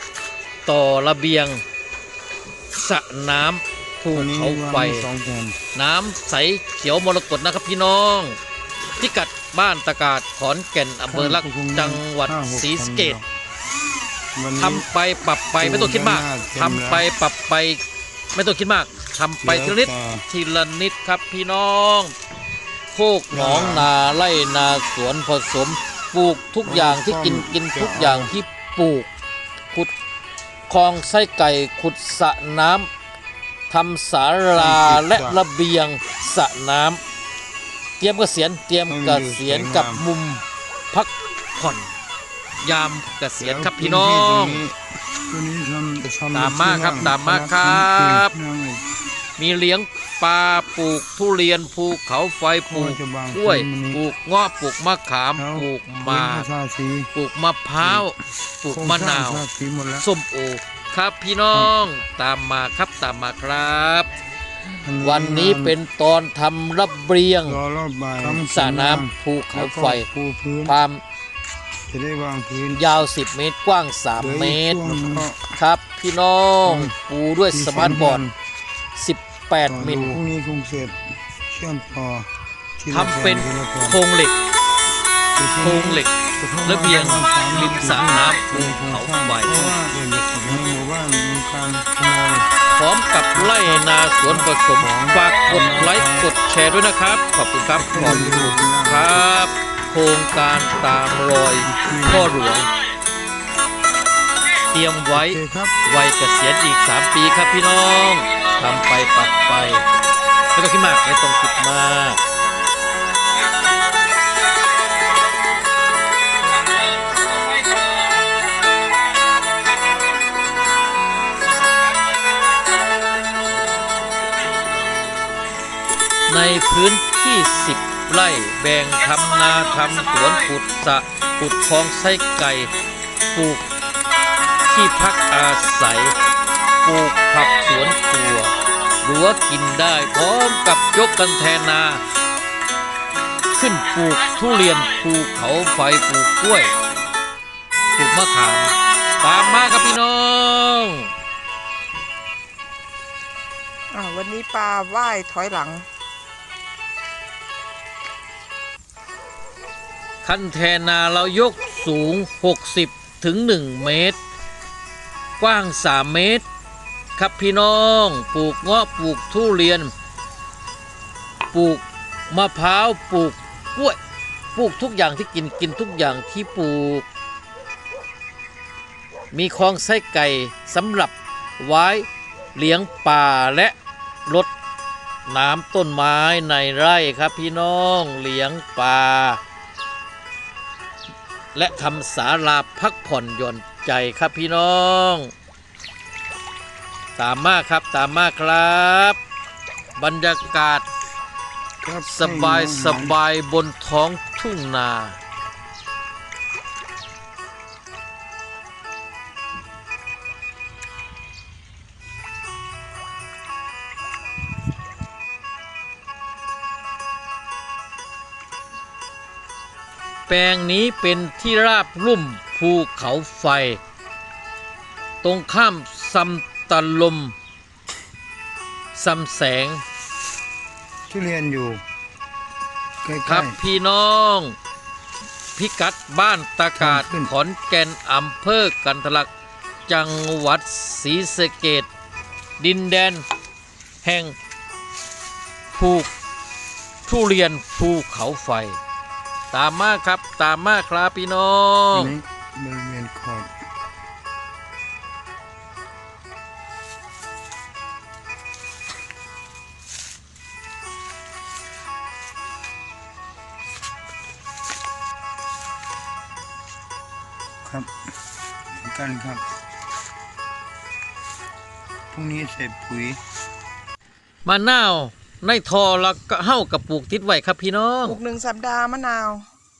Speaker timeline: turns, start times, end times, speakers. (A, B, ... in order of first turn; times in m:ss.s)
0:00.7-0:01.6 A
0:02.7-0:05.1 A
0:04.1-0:05.6 B
0:05.7-0:08.4 A
0:09.0-0:13.2 A
0:11.1-0:13.3 B
0:14.4-0:14.9 B
0:14.6-0:17.8 A
0:15.6-0:17.1 B
0:18.3-0:22.1 A
0:19.4-0:20.3 B
0:22.9-0:29.1 A
0:23.3-0:23.9 B
0:26.6-0:28.3 B
0:30.7-0:32.9 A
0:33.7-0:37.0 A
0:34.5-0:35.4 B
0:38.0-0:41.9 A
0:38.9-0:40.0 B
0:42.6-0:44.6 A
0:43.4-0:48.8 B
0:46.3-0:48.3 A
0:49.4-0:56.5 A
0:52.7-0:54.0 B
0:55.4-0:57.1 B
0:57.1-0:59.4 A
0:57.8-0:58.1 B
0:58.7-1:00.1 B
1:00.0-1:04.1 A
1:04.8-1:05.8 B
1:05.0-1:07.6 A
1:07.4-1:10.8 B
1:08.4-1:10.1 A
1:10.6-1:11.0 A
1:11.9-1:12.8 B
1:12.7-1:18.2 A
1:14.2-1:15.4 B
1:16.6-1:16.9 B
1:17.5-1:18.3 B
1:19.0-1:20.2 A
1:19.7-1:24.0 B
1:22.9-1:24.4 A
1:25.4-1:32.5 B
1:25.6-1:26.1 A
1:26.6-1:29.7 A
1:32.7-1:42.7 A
1:33.4-1:36.3 B
1:37.8-1:39.3 B
1:41.6-1:42.3 B
1:44.7-1:49.8 A
1:45.1-1:45.8 B
1:50.5-1:52.2 A
2:06.3-2:12.7 A
2:13.3-2:13.6 A
2:14.7-2:16.2 A
2:16.8-2:22.0 A
2:23.5-2:26.7 A
2:28.0-2:31.1 A
2:33.9-2:35.9 C
2:40.2-2:44.2 A
2:45.4-2:46.4 A
2:47.2-2:49.9 A
2:51.5-2:54.0 A
2:54.6-2:57.1 A
2:59.3-3:03.8 A
3:05.3-3:09.4 A
3:11.6-3:15.3 A
3:17.2-3:19.2 A
3:20.0-3:20.9 A
3:21.8-3:23.2 B
3:22.0-3:25.2 A
3:40.3-3:43.8 A
3:45.2-3:47.4 A
3:48.9-3:49.8 A
3:51.1-3:51.8 B
3:53.0-3:53.6 B
3:53.3-3:54.6 A
3:55.6-3:59.3 A
3:56.8-3:57.3 B
3:59.9-4:01.9 A
4:02.6-4:03.2 A
4:04.0-4:04.4 A
4:05.7-4:06.1 A
4:07.1-4:08.8 A
4:09.5-4:12.2 A
4:11.9-4:13.5 B
4:27.6-4:27.9 B
4:28.7-4:29.4 B
4:32.1-4:33.2 B
4:34.4-4:38.2 A
4:38.0-4:39.5 C